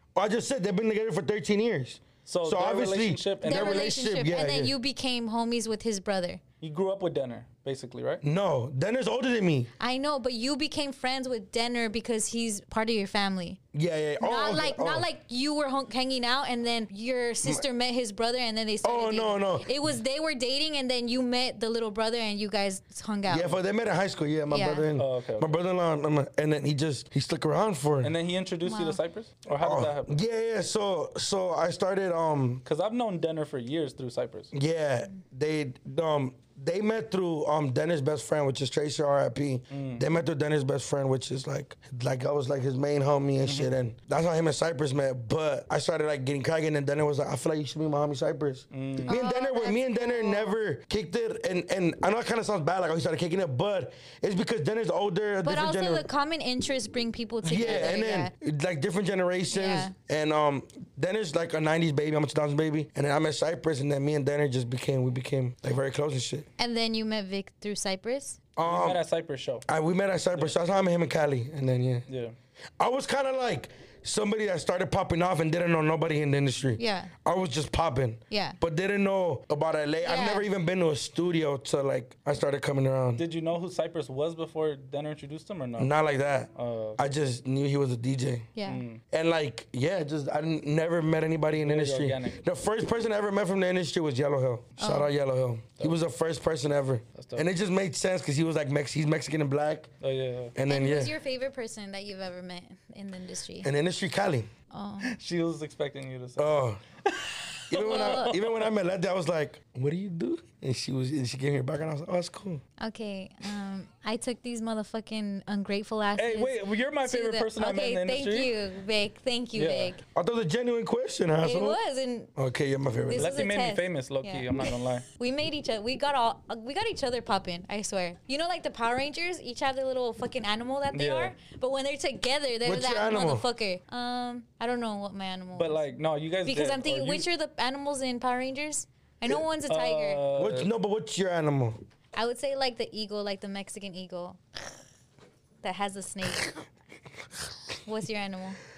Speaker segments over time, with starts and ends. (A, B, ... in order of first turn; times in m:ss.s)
0:00.2-0:04.7 A
0:02.3-0:04.0 B
0:03.4-0:06.4 C
0:06.6-0:08.2 B
0:08.2-0:09.7 A
0:09.8-0:13.6 C
0:13.7-0:15.1 A
0:14.2-0:23.6 C
0:18.8-0:19.8 A
0:23.3-0:28.2 A
0:24.5-0:24.9 C
0:25.0-0:25.5 B
0:28.0-0:30.2 B
0:28.6-0:29.0 C
0:29.6-0:32.6 A
0:32.6-0:34.5 B
0:34.5-0:56.1 A
0:39.7-0:40.0 B
0:48.7-0:49.1 B
0:49.1-0:50.6 C
0:55.4-0:58.3 C
0:57.4-1:06.5 A
0:59.5-0:59.9 C
1:06.6-1:08.4 C
1:08.6-1:09.0 A
1:08.6-1:09.7 B
1:09.7-1:12.1 A
1:12.1-1:12.4 B
1:12.8-1:23.2 A
1:16.8-1:17.1 C
1:18.3-1:18.6 C
1:20.0-1:20.4 C
1:23.2-1:25.9 B
1:25.8-1:28.5 A
1:26.6-1:27.0 B
1:28.6-1:28.8 C
1:28.7-1:29.0 B
1:29.1-1:39.9 A
1:31.6-1:32.4 B
1:34.8-1:35.1 C
1:37.2-1:37.5 B
1:40.0-1:40.5 B
1:40.6-1:41.1 A
1:40.7-1:43.7 C
1:43.6-1:44.5 A
1:44.7-1:45.1 C
1:45.0-1:48.7 B
1:46.4-1:46.8 A
1:47.7-1:52.6 A
1:47.8-1:48.3 C
1:52.8-2:00.0 C
1:56.2-1:58.5 B
1:59.6-2:00.0 B
2:00.1-2:01.8 A
2:01.4-2:02.3 C
2:02.4-2:03.3 A
2:03.1-2:15.8 C
2:03.1-2:05.0 B
2:10.9-2:11.3 B
2:12.6-2:13.4 A
2:15.6-2:17.3 B
2:16.4-2:20.2 C
2:19.7-2:20.7 B
2:20.4-2:21.8 A
2:22.2-2:24.4 C
2:25.6-2:26.6 C
2:27.8-2:28.6 C